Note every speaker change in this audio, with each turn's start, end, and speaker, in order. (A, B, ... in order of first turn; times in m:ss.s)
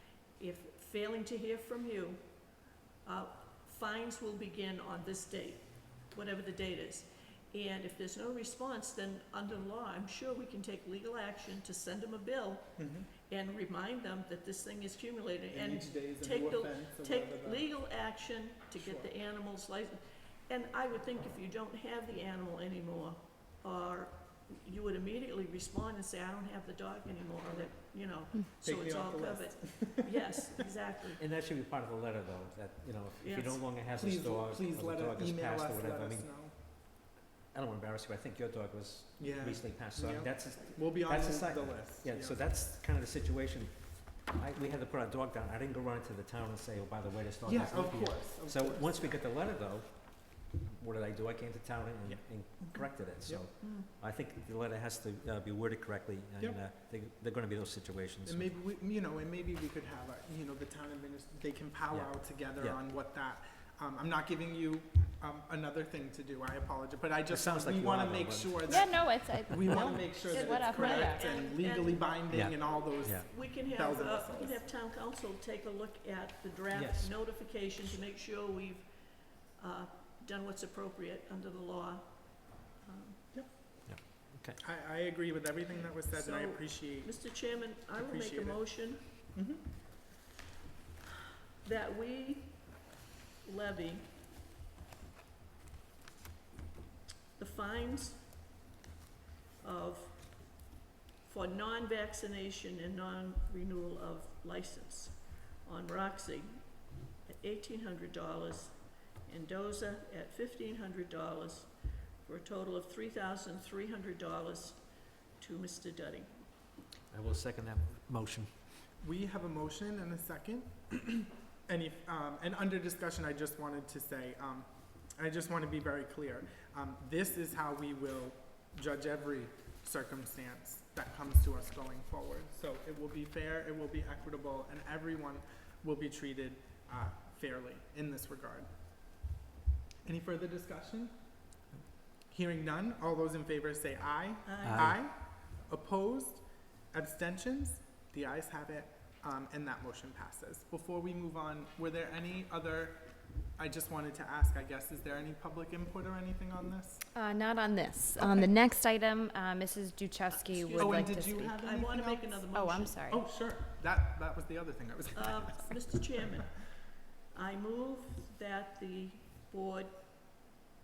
0:00.4-0:31.2 A
0:12.8-0:13.1 B
0:15.5-0:17.7 B
0:18.8-0:19.1 B
0:27.5-0:27.7 B
0:28.6-0:30.2 B
0:31.2-0:58.6 C
0:33.2-0:33.6 A
0:33.9-0:36.6 B
0:39.2-0:42.4 B
0:47.4-0:49.2 B
0:52.0-0:53.5 B
0:53.6-0:53.9 A
0:58.2-1:14.7 B
1:01.9-1:02.8 C
1:07.3-1:08.7 C
1:08.7-1:11.3 D
1:10.1-1:23.4 A
1:12.3-1:13.3 C
1:16.7-1:17.2 C
1:23.3-1:29.6 B
1:23.9-1:24.6 C
1:25.7-1:29.3 A
1:31.6-1:34.1 A
1:37.4-1:38.5 A
1:39.6-1:40.7 A
1:41.2-1:56.5 A
1:57.1-1:58.5 C
1:59.0-2:18.7 B
2:20.0-2:21.3 B
2:22.3-2:37.1 B
2:24.4-2:24.9 A
2:24.6-2:25.0 C
2:37.1-2:41.6 D
2:38.2-2:38.5 B
2:40.3-2:43.0 A
2:40.8-2:42.5 B
2:42.5-2:43.3 D
2:43.1-2:45.9 B
2:45.2-2:50.0 A